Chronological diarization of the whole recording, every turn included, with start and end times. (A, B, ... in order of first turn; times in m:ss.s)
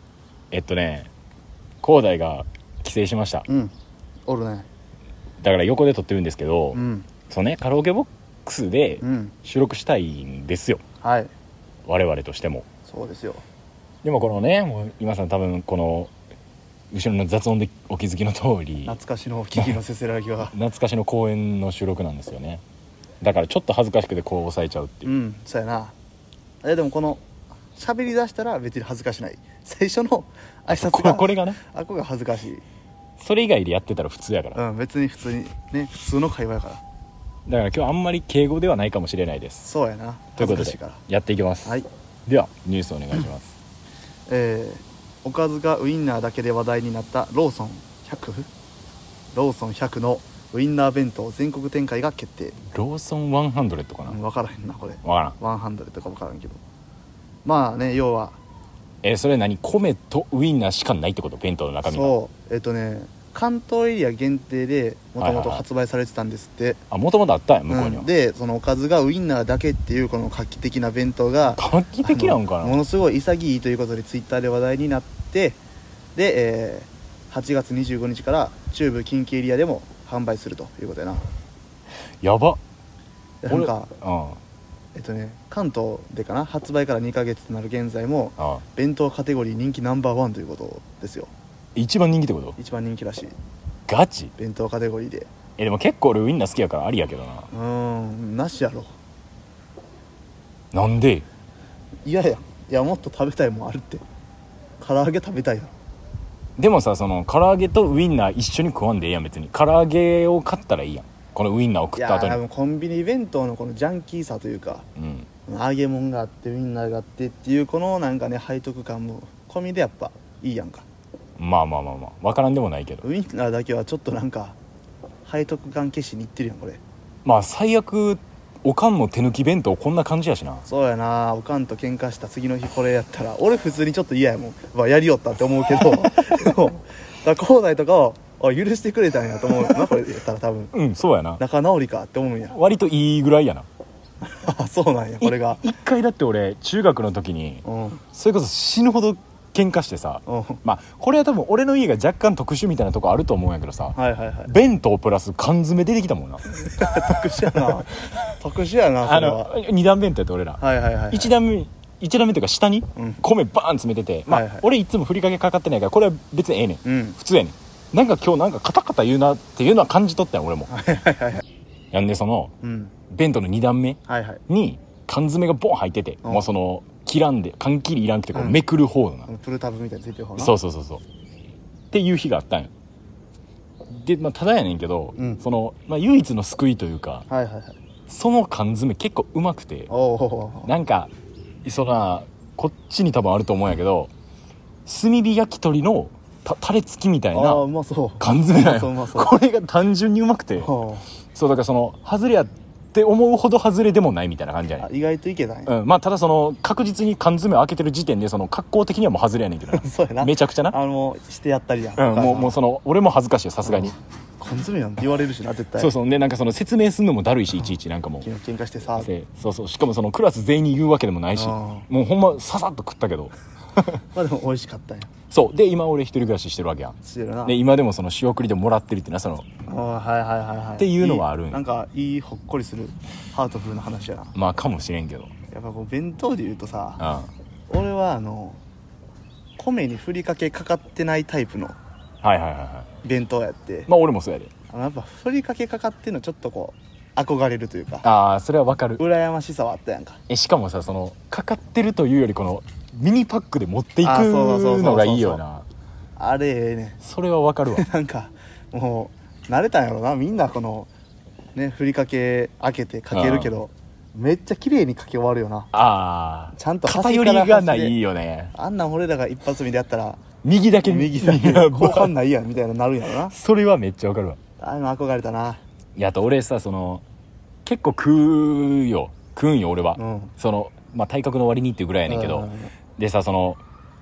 0:00.5-0:01.1 A
0:01.8-0:03.4 A
0:03.5-0:03.7 B
0:04.2-0:04.7 B
0:05.4-0:10.8 A
0:06.7-0:07.1 B
0:09.0-0:09.3 B
0:11.0-0:11.3 B
0:11.8-0:12.6 A
0:12.8-0:13.4 B
0:14.0-0:16.1 A
0:16.9-0:19.0 A
0:18.8-0:20.6 B
0:20.5-0:22.6 A
0:23.2-0:25.1 A
0:25.0-0:25.9 B
0:26.6-0:27.2 B
0:27.7-0:32.6 B
0:30.7-0:31.6 A
0:33.2-0:34.6 A
0:34.5-0:36.8 B
0:37.5-0:39.7 A
0:39.6-0:41.0 B
0:40.4-0:43.5 A
0:44.3-0:48.5 B
0:49.3-0:52.6 B
0:52.7-0:54.2 A
0:54.1-0:56.6 B
0:55.0-0:55.4 A
0:57.4-0:58.4 B
0:59.0-1:02.1 A
1:01.8-1:06.8 B
1:05.2-1:05.6 A
1:06.9-1:08.1 A
1:07.7-1:15.6 B
1:11.5-1:12.8 A
1:16.1-1:21.2 B
1:22.2-1:22.6 A
1:23.4-1:23.9 B
1:23.5-1:24.4 A
1:24.9-1:31.3 B
1:28.4-1:28.6 A
1:31.7-1:32.6 A
1:32.6-1:33.3 B
1:33.9-1:34.3 A
1:34.4-1:35.3 B
1:35.6-1:37.5 A
1:37.5-1:38.9 B
1:40.7-1:41.2 A
1:42.0-1:44.0 B
1:44.8-1:45.7 B
1:46.6-1:52.4 A
1:52.0-1:54.8 B
1:55.0-1:55.3 A
1:55.5-2:00.8 B
2:01.4-2:03.0 A
2:03.0-2:04.6 B
2:05.2-2:06.8 B
2:07.2-2:10.6 A
2:10.6-2:20.7 B
2:20.7-2:21.4 A
2:21.4-2:22.6 B
2:22.5-2:23.6 A
2:24.2-2:25.6 B
2:25.2-2:38.3 A
2:27.6-2:28.0 B
2:30.2-2:30.6 B
2:33.9-2:34.5 B
2:36.5-2:39.5 B
2:39.0-2:50.7 A
2:40.6-2:41.3 B
2:43.0-2:43.2 B
2:44.3-2:44.6 B
2:46.8-2:47.2 B
2:50.7-2:51.4 B
2:51.9-2:52.5 A
2:52.6-2:52.9 B
2:53.1-2:59.3 A
2:54.1-2:54.4 B
2:58.3-2:58.6 B
2:59.3-3:00.5 B
3:00.4-3:01.0 A
3:01.9-3:02.7 A
3:03.9-3:07.3 A
3:05.2-3:05.4 B
3:07.3-3:07.8 B
3:08.1-3:09.9 A
3:09.9-3:10.7 B
3:10.6-3:11.1 A
3:11.6-3:14.1 A
3:14.8-3:17.6 A
3:17.3-3:19.3 B
3:18.2-3:20.7 A
3:20.6-3:21.0 B
3:21.3-3:24.9 A
3:24.8-3:25.7 B
3:25.6-3:30.8 A
3:29.7-3:32.6 B
3:32.0-3:34.0 A
3:33.6-3:35.9 B
3:35.8-3:38.3 A
3:38.2-3:39.1 B
3:39.0-3:44.0 A
3:41.3-3:41.8 B
3:44.1-3:45.1 B
3:45.3-3:49.4 A
3:47.0-3:47.6 B
3:49.6-3:54.3 B
3:50.8-3:51.6 A
3:54.3-3:55.3 A
3:55.5-3:57.0 B
3:57.0-3:57.3 A
3:57.7-3:58.6 B
3:59.6-4:01.8 B
4:02.2-4:02.9 A
4:03.0-4:03.9 B
4:03.9-4:04.5 A
4:04.7-4:08.0 B
4:08.0-4:09.0 A
4:09.0-4:10.2 B
4:10.3-4:15.6 A
4:14.0-4:15.4 B
4:16.2-4:17.0 B
4:17.0-4:17.9 A
4:17.7-4:20.9 B
4:21.5-4:25.7 B
4:23.1-4:23.5 A
4:25.7-4:28.5 A
4:26.5-4:28.0 B
4:28.5-4:30.2 B
4:30.4-4:32.1 A
4:30.8-4:33.3 B
4:33.3-4:34.4 A
4:34.6-4:35.6 B
4:36.0-4:37.0 A
4:37.6-4:43.6 A
4:40.0-4:40.3 B
4:42.1-4:42.7 B